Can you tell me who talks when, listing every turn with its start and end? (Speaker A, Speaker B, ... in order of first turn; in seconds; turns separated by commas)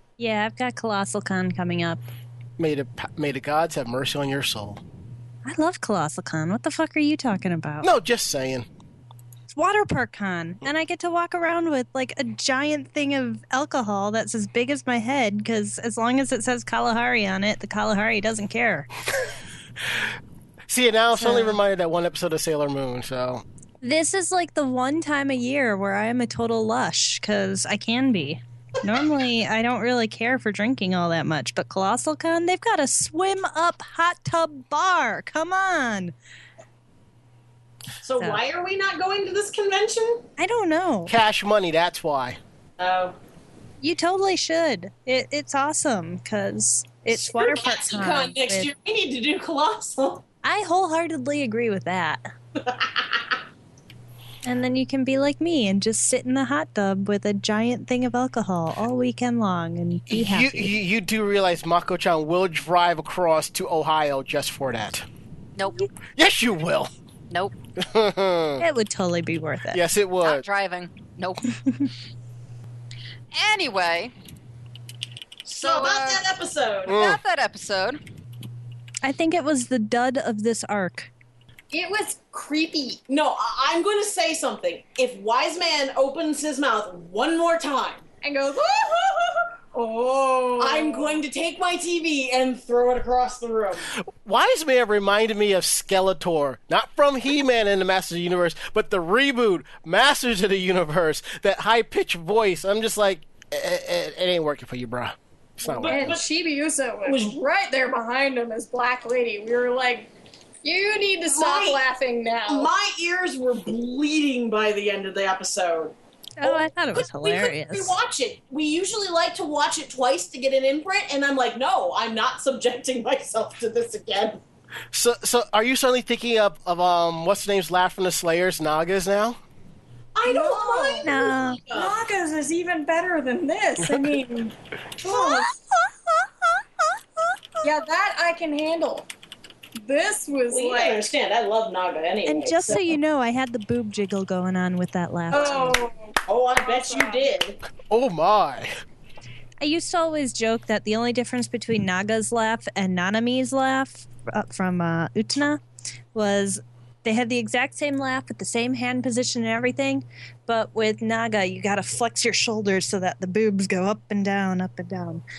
Speaker A: 0.2-2.0, Speaker B: 2.6-4.8, Speaker A: 5.5-7.9, Speaker B: 7.8-8.7, Speaker A: 9.5-18.9, Speaker B: 20.7-23.4, Speaker A: 21.2-21.6, Speaker A: 23.8-36.1, Speaker C: 38.0-40.3, Speaker A: 40.4-41.1, Speaker B: 41.1-42.4, Speaker C: 42.8-43.1, Speaker A: 43.8-48.7, Speaker C: 47.1-50.2, Speaker A: 50.4-52.3, Speaker C: 52.6-53.3, Speaker A: 54.4-60.7, Speaker B: 60.1-65.1, Speaker D: 65.6-65.9, Speaker B: 66.2-66.9, Speaker D: 67.3-67.5, Speaker B: 67.8-68.6, Speaker A: 68.6-69.8, Speaker B: 69.7-70.4, Speaker D: 70.2-71.4, Speaker D: 73.3-74.1, Speaker C: 75.5-77.0, Speaker D: 75.6-76.2, Speaker D: 76.9-78.0, Speaker B: 76.9-77.2, Speaker A: 79.0-81.1, Speaker E: 81.7-83.1, Speaker C: 83.1-88.0, Speaker E: 88.2-91.2, Speaker C: 90.6-93.9, Speaker B: 94.0-106.2, Speaker C: 105.7-106.2, Speaker E: 105.8-110.1, Speaker C: 107.1-107.4, Speaker E: 110.6-112.7, Speaker C: 111.3-111.8, Speaker C: 112.5-124.4, Speaker A: 116.4-117.9, Speaker B: 124.9-129.4, Speaker C: 130.2-132.0, Speaker E: 130.2-135.5, Speaker A: 131.0-131.6, Speaker C: 135.0-135.4, Speaker E: 137.6-139.1, Speaker E: 139.8-141.1, Speaker C: 140.5-142.9, Speaker A: 142.3-145.8, Speaker E: 145.3-147.3, Speaker C: 145.3-145.8, Speaker C: 146.3-147.6, Speaker B: 147.9-148.7, Speaker A: 149.6-155.6, Speaker A: 156.1-165.2